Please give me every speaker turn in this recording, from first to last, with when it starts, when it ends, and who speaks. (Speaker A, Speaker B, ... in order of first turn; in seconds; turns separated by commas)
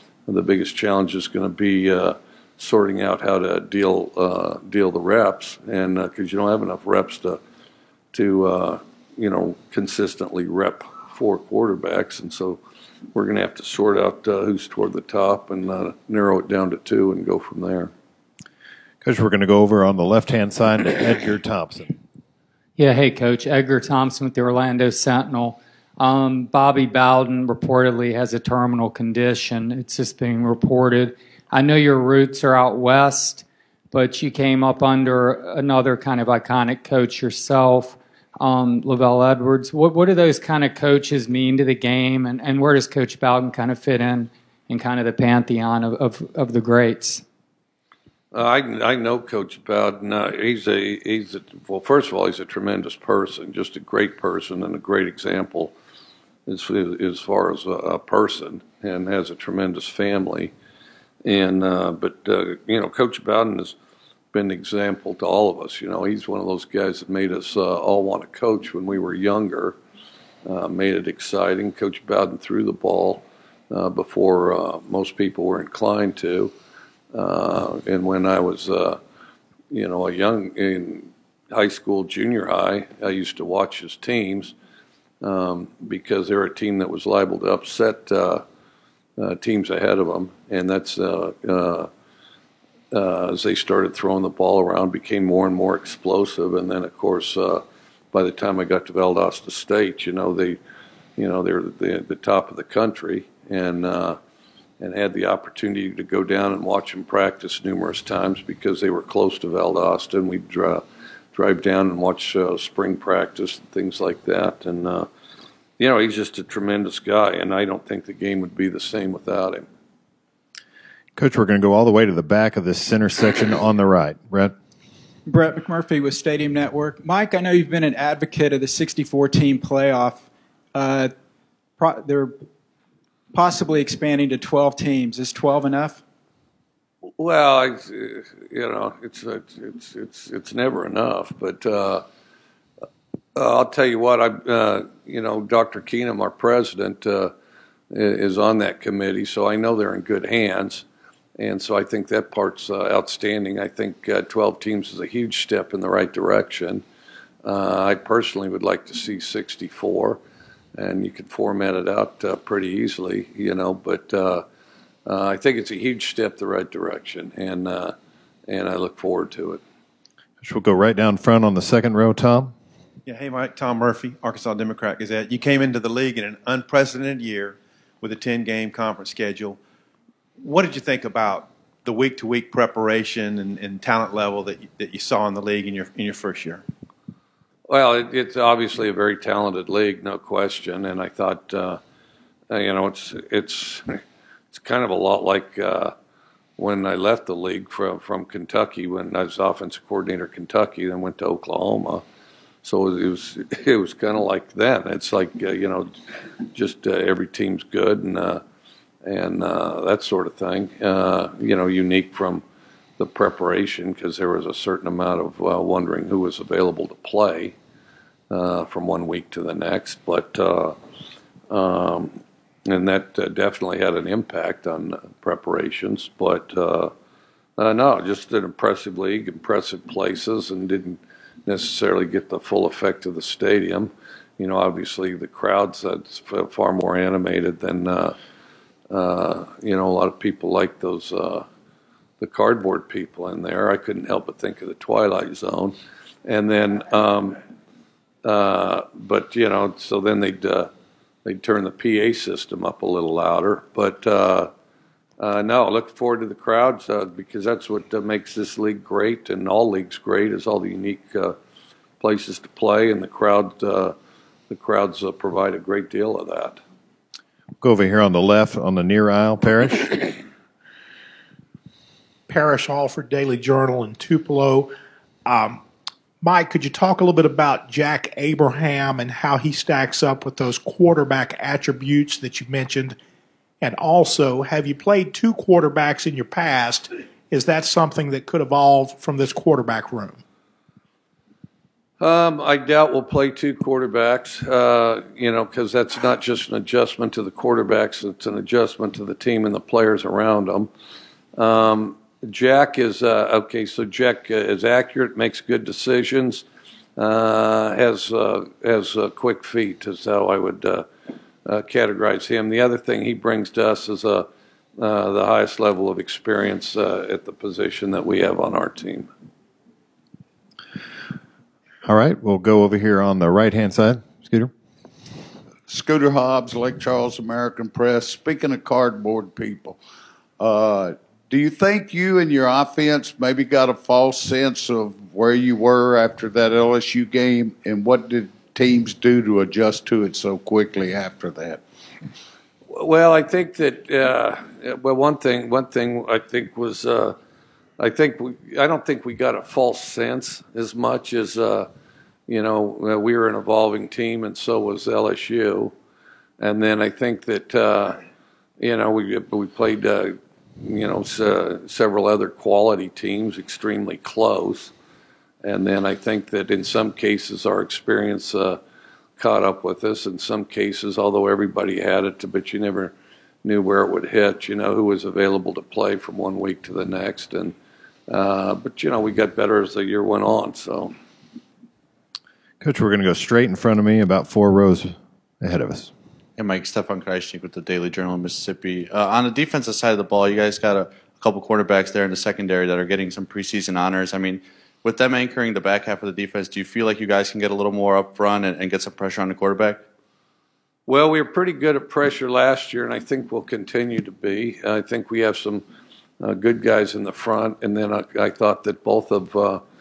Speaker A: 0.3-7.4, Speaker A: 8.1-12.6, Speaker A: 13.1-17.9, Speaker B: 19.0-21.9, Speaker C: 22.8-47.2, Speaker A: 48.3-55.7, Speaker A: 56.5-60.5, Speaker A: 61.2-63.7, Speaker A: 64.3-69.8, Speaker A: 70.4-76.5, Speaker A: 77.1-79.0, Speaker A: 79.7-84.5, Speaker A: 85.2-88.4, Speaker A: 89.2-91.9, Speaker A: 92.9-100.6, Speaker A: 101.2-104.2, Speaker A: 104.8-115.1, Speaker A: 115.8-119.7, Speaker B: 121.2-124.5, Speaker D: 125.2-131.1, Speaker D: 131.8-132.4, Speaker D: 133.3-136.0, Speaker A: 137.2-142.0, Speaker A: 143.3-147.3, Speaker A: 147.9-150.8, Speaker A: 151.4-156.8, Speaker A: 157.4-160.2, Speaker A: 160.8-164.4, Speaker A: 165.1-167.9, Speaker A: 168.5-169.6, Speaker B: 170.4-172.5, Speaker E: 173.1-179.6, Speaker E: 180.4-186.6, Speaker A: 187.7-191.8, Speaker A: 192.5-194.0, Speaker A: 194.5-195.9, Speaker A: 196.6-202.0, Speaker A: 202.6-205.9, Speaker A: 206.5-208.4, Speaker A: 209.0-212.4, Speaker A: 213.0-217.6, Speaker A: 218.3-220.8, Speaker A: 221.5-226.9, Speaker A: 227.6-238.2, Speaker A: 238.9-241.4, Speaker A: 242.2-247.4, Speaker A: 248.2-250.7, Speaker A: 251.2-254.5, Speaker A: 255.2-261.4, Speaker A: 262.0-263.9, Speaker A: 264.5-266.6, Speaker B: 267.6-270.2, Speaker F: 272.3-274.7, Speaker F: 275.2-275.6, Speaker F: 276.2-283.0, Speaker F: 283.6-290.2, Speaker A: 292.0-300.7, Speaker A: 301.4-306.4, Speaker A: 307.0-310.9, Speaker A: 311.4-314.3, Speaker A: 314.8-319.1, Speaker B: 321.8-324.5, Speaker G: 325.7-329.7, Speaker G: 330.4-341.6, Speaker A: 342.7-347.1, Speaker A: 347.8-351.7, Speaker A: 352.3-355.7, Speaker A: 356.4-358.0, Speaker A: 358.6-364.7, Speaker A: 365.4-368.6, Speaker A: 369.2-372.9, Speaker A: 373.4-377.5, Speaker A: 378.1-380.9, Speaker B: 382.6-385.9, Speaker H: 386.4-399.8, Speaker A: 400.9-405.6, Speaker A: 406.2-409.6